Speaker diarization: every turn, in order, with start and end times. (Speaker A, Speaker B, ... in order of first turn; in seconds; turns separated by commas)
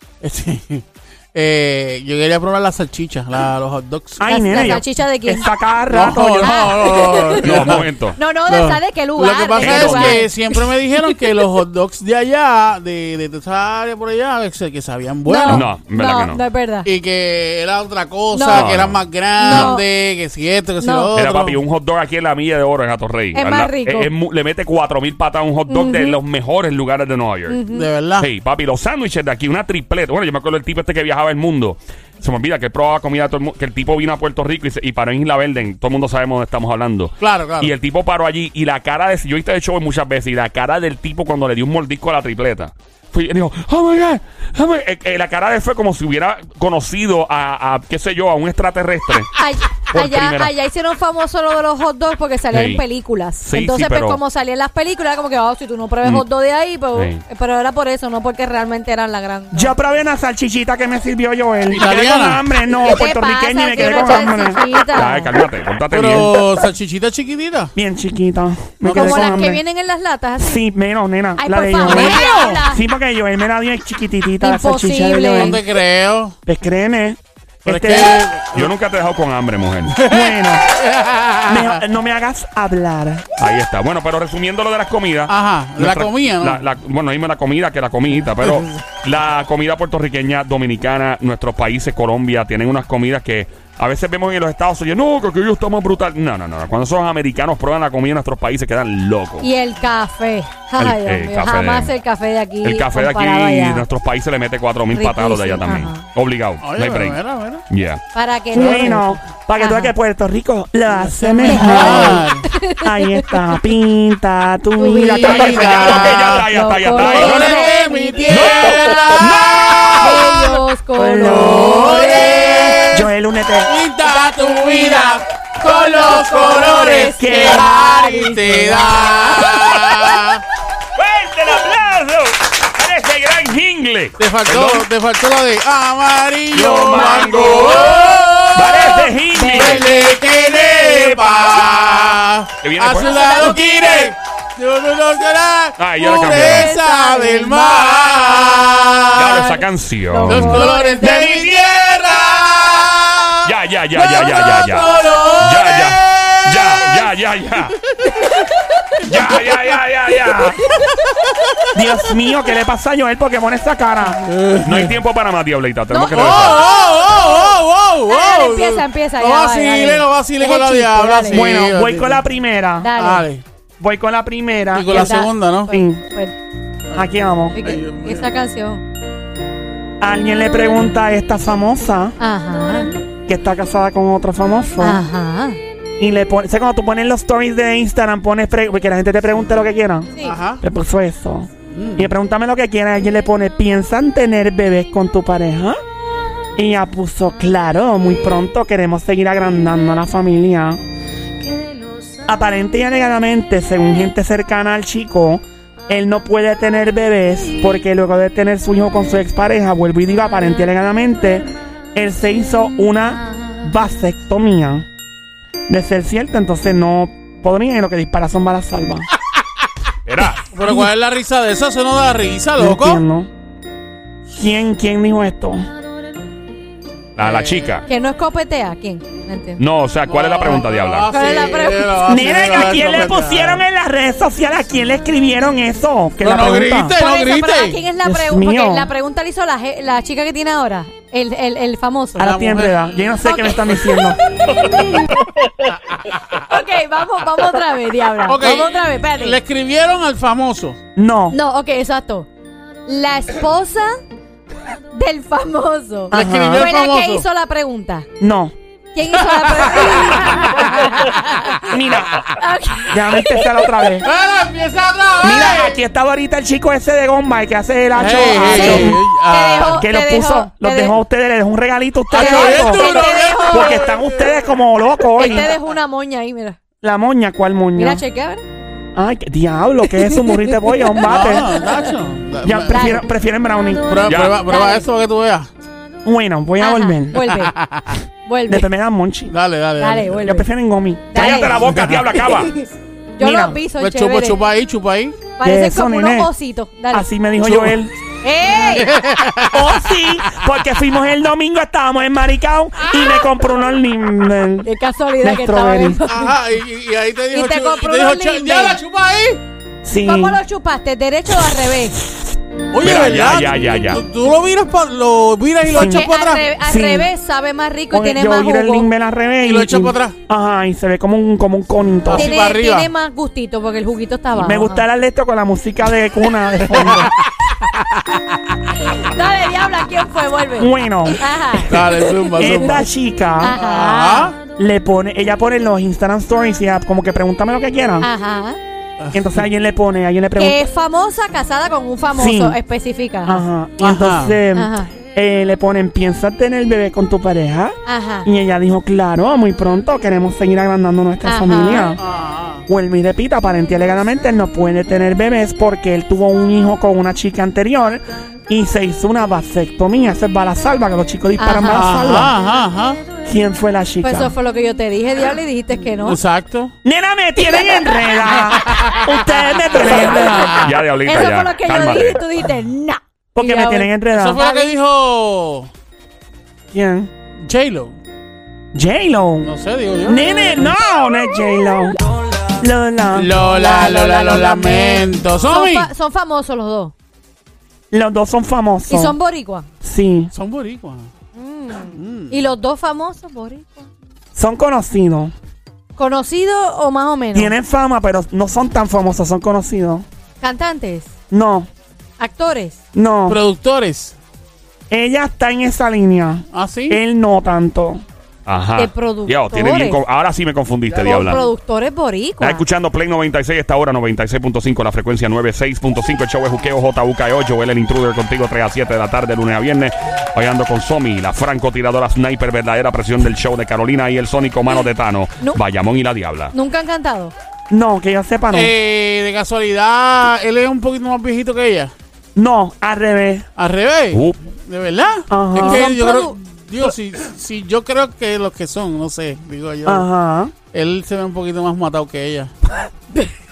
Speaker A: 0.2-4.7, Speaker B: 4.2-6.9, Speaker C: 4.2-5.5, Speaker A: 5.9-7.9, Speaker C: 6.4-7.4, Speaker D: 7.4-8.2, Speaker C: 8.2-11.2, Speaker A: 8.5-15.7, Speaker D: 9.6-10.2, Speaker C: 15.2-16.9, Speaker D: 15.5-16.4, Speaker A: 16.9-21.6, Speaker C: 18.3-18.7, Speaker D: 18.5-19.8, Speaker C: 19.4-19.9, Speaker C: 20.8-21.1, Speaker D: 21.1-27.6, Speaker C: 23.3-24.1, Speaker C: 25.7-26.2, Speaker C: 27.5-27.9, Speaker A: 27.7-28.3, Speaker D: 28.2-49.3, Speaker A: 37.2-37.7, Speaker C: 49.4-59.8, Speaker D: 49.9-50.5, Speaker D: 52.5-52.8, Speaker D: 53.4-54.2, Speaker D: 57.0-57.2, Speaker B: 59.5-64.6, Speaker A: 61.7-62.4, Speaker C: 62.8-65.3, Speaker D: 64.9-66.4, Speaker A: 65.9-67.7, Speaker B: 67.8-69.6, Speaker A: 68.8-69.5, Speaker C: 68.9-70.6, Speaker B: 70.4-75.6, Speaker C: 71.4-72.8, Speaker A: 71.9-72.5, Speaker C: 74.4-75.6, Speaker A: 75.4-76.3, Speaker B: 76.5-78.2, Speaker A: 77.7-78.7, Speaker D: 78.5-80.0, Speaker A: 79.9-81.8, Speaker B: 80.0-80.7, Speaker B: 81.5-83.2, Speaker D: 83.4-99.5, Speaker A: 85.3-86.6, Speaker A: 88.4-88.8, Speaker C: 99.4-103.8, Speaker D: 100.8-101.9, Speaker D: 102.6-108.0, Speaker C: 104.9-106.0, Speaker A: 106.6-107.6, Speaker C: 108.1-109.9, Speaker B: 108.5-112.2, Speaker A: 111.0-112.5, Speaker C: 111.4-113.6, Speaker B: 112.8-115.9, Speaker C: 114.8-118.8, Speaker A: 115.2-120.6, Speaker D: 115.3-117.7, Speaker D: 118.3-120.1, Speaker C: 120.0-122.9, Speaker B: 121.0-122.2, Speaker A: 121.2-123.0, Speaker B: 122.8-123.7, Speaker A: 123.7-130.4, Speaker C: 124.1-129.7, Speaker B: 127.2-127.7, Speaker D: 131.0-134.9, Speaker A: 134.2-149.6, Speaker D: 136.5-139.9, Speaker C: 137.0-137.7, Speaker C: 139.3-140.2, Speaker D: 140.9-141.7, Speaker D: 142.6-143.6, Speaker C: 143.0-143.7, Speaker D: 145.8-146.7, Speaker C: 146.0-148.4, Speaker D: 149.1-150.7, Speaker C: 150.1-151.5, Speaker A: 150.2-156.9, Speaker D: 153.4-157.8, Speaker C: 158.2-158.4, Speaker D: 159.1-160.6, Speaker A: 159.1-159.8, Speaker A: 161.1-161.7, Speaker B: 161.7-164.2, Speaker A: 164.2-165.0, Speaker D: 164.6-166.6, Speaker C: 165.9-167.2, Speaker A: 166.0-172.2, Speaker C: 168.1-171.5, Speaker B: 171.3-172.9, Speaker C: 172.8-173.2, Speaker A: 173.0-173.4, Speaker B: 173.8-176.0, Speaker A: 174.7-175.7, Speaker C: 174.9-176.3, Speaker A: 176.9-178.3, Speaker B: 176.9-177.6, Speaker C: 177.6-178.8, Speaker B: 180.0-182.2, Speaker C: 182.2-182.9, Speaker B: 183.3-185.0, Speaker C: 184.8-185.6, Speaker B: 186.0-195.8, Speaker A: 190.2-190.6, Speaker A: 191.7-192.1, Speaker B: 196.6-200.8, Speaker B: 202.2-214.9, Speaker B: 215.7-219.1, Speaker D: 220.1-220.4, Speaker A: 220.5-223.0, Speaker B: 220.6-220.9, Speaker B: 222.6-223.3, Speaker B: 224.4-225.7, Speaker D: 227.2-227.8, Speaker A: 227.2-227.8, Speaker C: 227.9-229.6, Speaker D: 229.6-231.1, Speaker A: 230.1-233.6, Speaker C: 231.1-232.6, Speaker B: 232.0-237.0, Speaker A: 236.2-237.8, Speaker C: 237.0-242.4, Speaker B: 238.0-238.9, Speaker B: 242.2-244.2, Speaker A: 242.2-242.8, Speaker C: 243.2-244.5, Speaker A: 245.7-246.5, Speaker C: 246.5-249.4, Speaker A: 248.2-250.8, Speaker B: 251.0-251.4, Speaker C: 251.3-252.3, Speaker C: 252.9-254.0, Speaker C: 254.9-258.1, Speaker B: 256.1-256.7, Speaker A: 256.1-257.2, Speaker B: 258.2-258.5, Speaker C: 258.9-261.7, Speaker A: 259.2-261.4, Speaker B: 261.7-262.3, Speaker C: 262.3-263.4, Speaker B: 262.9-264.1, Speaker A: 264.0-265.8, Speaker B: 265.2-269.1, Speaker A: 267.9-269.8, Speaker C: 268.5-270.9, Speaker B: 269.7-275.5, Speaker A: 272.1-274.5, Speaker C: 272.1-273.8, Speaker C: 275.2-276.6, Speaker A: 275.2-275.7, Speaker B: 276.8-278.0, Speaker C: 277.8-278.4, Speaker B: 278.9-281.6, Speaker C: 279.9-281.9, Speaker A: 281.0-283.0, Speaker B: 282.4-284.0, Speaker C: 282.7-283.0, Speaker A: 283.9-285.5, Speaker D: 284.1-284.4, Speaker C: 284.5-284.9, Speaker B: 286.0-287.2, Speaker C: 286.6-287.5, Speaker A: 287.2-288.0, Speaker C: 288.2-288.7, Speaker B: 288.5-289.3, Speaker A: 289.3-290.2, Speaker C: 289.8-290.5, Speaker B: 290.2-291.8, Speaker C: 291.1-291.6, Speaker D: 291.1-292.5, Speaker A: 291.7-292.0, Speaker C: 292.2-294.4, Speaker B: 293.2-293.6, Speaker A: 293.8-295.2, Speaker C: 295.4-297.1, Speaker B: 295.4-296.3, Speaker B: 296.9-297.9, Speaker A: 297.4-297.8, Speaker C: 298.2-298.9, Speaker A: 298.6-299.8, Speaker B: 299.5-304.7, Speaker C: 304.6-306.4, Speaker B: 305.2-306.0, Speaker A: 306.1-309.4, Speaker C: 307.3-308.8, Speaker B: 309.8-310.4, Speaker C: 310.0-312.0, Speaker A: 312.7-316.4, Speaker D: 312.8-314.0, Speaker B: 315.6-316.1, Speaker C: 315.7-318.9, Speaker B: 316.6-317.1, Speaker B: 317.9-322.3, Speaker A: 319.4-320.1, Speaker A: 322.1-322.9, Speaker C: 322.1-324.9, Speaker B: 324.4-327.1, Speaker A: 326.7-327.2, Speaker A: 327.9-328.5, Speaker C: 328.9-332.7, Speaker B: 330.6-333.6, Speaker A: 331.7-332.8, Speaker C: 333.4-334.3, Speaker A: 333.4-334.4, Speaker B: 334.6-338.1, Speaker C: 338.0-338.6, Speaker A: 339.0-339.4, Speaker B: 339.1-340.6, Speaker C: 340.4-343.4, Speaker B: 342.1-342.6, Speaker B: 343.2-352.0, Speaker A: 343.8-344.4, Speaker C: 344.5-344.9, Speaker C: 347.9-348.3, Speaker C: 351.2-351.9, Speaker A: 352.0-352.6, Speaker B: 352.7-362.3, Speaker C: 361.4-361.9, Speaker A: 361.7-363.0, Speaker B: 363.2-364.3, Speaker C: 364.0-366.2, Speaker A: 366.0-366.7, Speaker B: 366.8-370.6, Speaker A: 368.4-370.8, Speaker D: 370.6-372.2, Speaker C: 371.1-374.8, Speaker B: 373.4-374.4, Speaker A: 374.1-375.7, Speaker B: 376.7-377.1, Speaker A: 377.4-378.0, Speaker B: 378.7-379.5, Speaker A: 379.4-380.2, Speaker B: 380.0-382.0, Speaker B: 382.6-383.4, Speaker A: 383.1-385.9, Speaker C: 383.4-386.9, Speaker B: 387.9-389.2, Speaker C: 388.9-389.7, Speaker B: 389.8-390.3, Speaker A: 390.3-391.1, Speaker C: 391.4-393.9, Speaker A: 391.9-392.4, Speaker B: 394.4-395.3, Speaker C: 396.0-397.5, Speaker B: 397.3-400.1, Speaker C: 400.4-401.1, Speaker B: 401.3-401.7, Speaker C: 402.2-402.8, Speaker B: 402.9-403.4, Speaker A: 403.3-404.1, Speaker B: 404.9-408.0, Speaker A: 406.5-407.0, Speaker D: 408.5-411.5, Speaker C: 408.8-410.0, Speaker A: 411.0-411.5, Speaker C: 411.0-412.6, Speaker D: 412.4-426.5, Speaker C: 426.5-427.3, Speaker B: 427.7-428.7, Speaker A: 428.5-431.9, Speaker B: 432.4-433.5, Speaker A: 433.6-440.1, Speaker D: 434.1-434.4, Speaker B: 435.3-435.9, Speaker C: 435.6-436.4, Speaker B: 439.9-440.5, Speaker A: 440.7-442.5